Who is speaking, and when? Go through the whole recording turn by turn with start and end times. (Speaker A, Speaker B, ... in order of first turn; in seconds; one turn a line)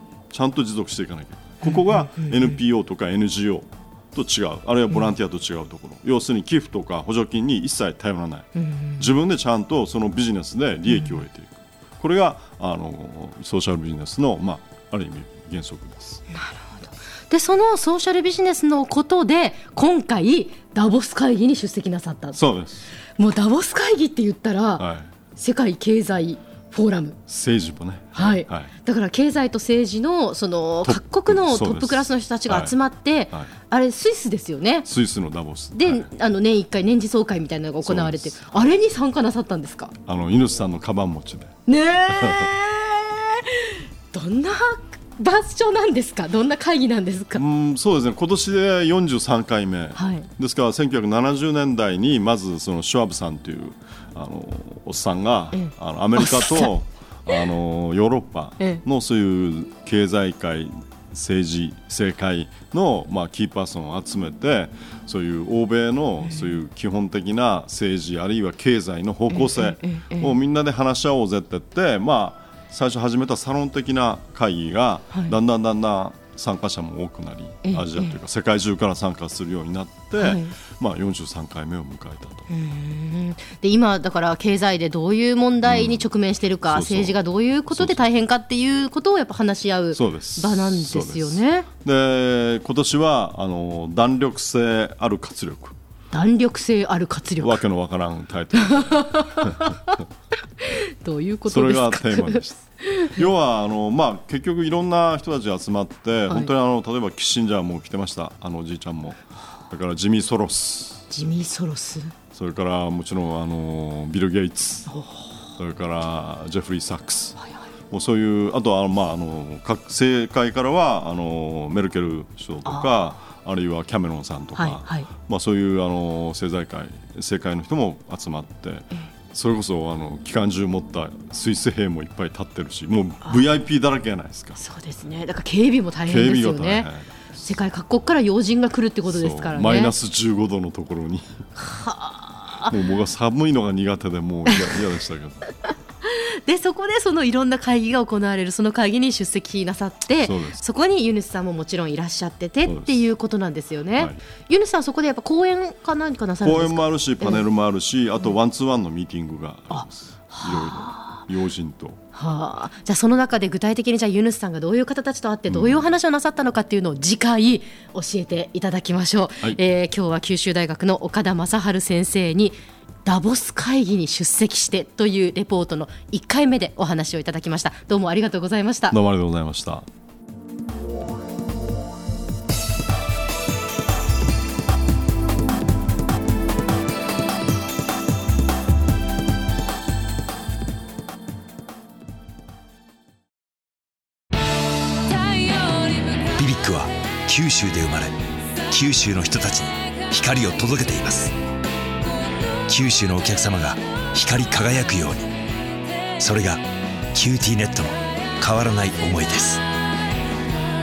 Speaker A: 0.3-16.2
Speaker B: 1.6-2.6
Speaker B: 8.6-9.1
Speaker B: 10.9-11.2
Speaker B: 16.3-22.4
Speaker A: 22.3-22.9
Speaker B: 23.2-27.2
Speaker A: 24.8-25.1
Speaker A: 27.3-28.7
Speaker B: 28.2-34.9
Speaker A: 30.9-32.8
Speaker A: 34.9-36.1
Speaker B: 35.8-39.9
Speaker A: 37.8-38.5
Speaker A: 40.1-41.6
Speaker B: 41.7-47.4
Speaker A: 42.1-42.5
Speaker A: 47.4-82.5
Speaker B: 50.0-50.3
Speaker B: 55.5-56.8
Speaker B: 66.3-66.5
Speaker B: 69.3-70.3
Speaker B: 77.6-78.2
Speaker B: 80.2-80.5
Speaker B: 82.5-91.7
Speaker A: 85.7-86.1
Speaker A: 86.7-88.1
Speaker A: 89.9-95.8
Speaker B: 96.1-97.6
Speaker A: 97.4-99.8
Speaker B: 98.5-100.0
Speaker B: 100.6-103.2
Speaker A: 101.5-111.1
Speaker B: 111.1-112.1
Speaker A: 112.3-114.9
Speaker B: 114.9-115.5
Speaker A: 115.6-117.4
Speaker A: 117.9-134.6
Speaker B: 122.7-122.9
Speaker B: 124.6-125.1
Speaker B: 134.6-139.9
Speaker A: 136.1-137.4
Speaker A: 139.1-141.4
Speaker B: 141.6-142.7
Speaker A: 142.7-145.5
Speaker B: 144.5-144.8
Speaker B: 145.6-157.4
Speaker A: 150.2-150.6
Speaker A: 152.7-153.1
Speaker A: 156.4-162.0
Speaker B: 159.7-161.2
Speaker B: 162.1-179.0
Speaker A: 165.5-165.9
Speaker A: 178.9-179.9
Speaker C: 196.3-198.2
Speaker C: 198.7-201.3
Speaker C: 202.7-205.3
Speaker C: 206.2-209.6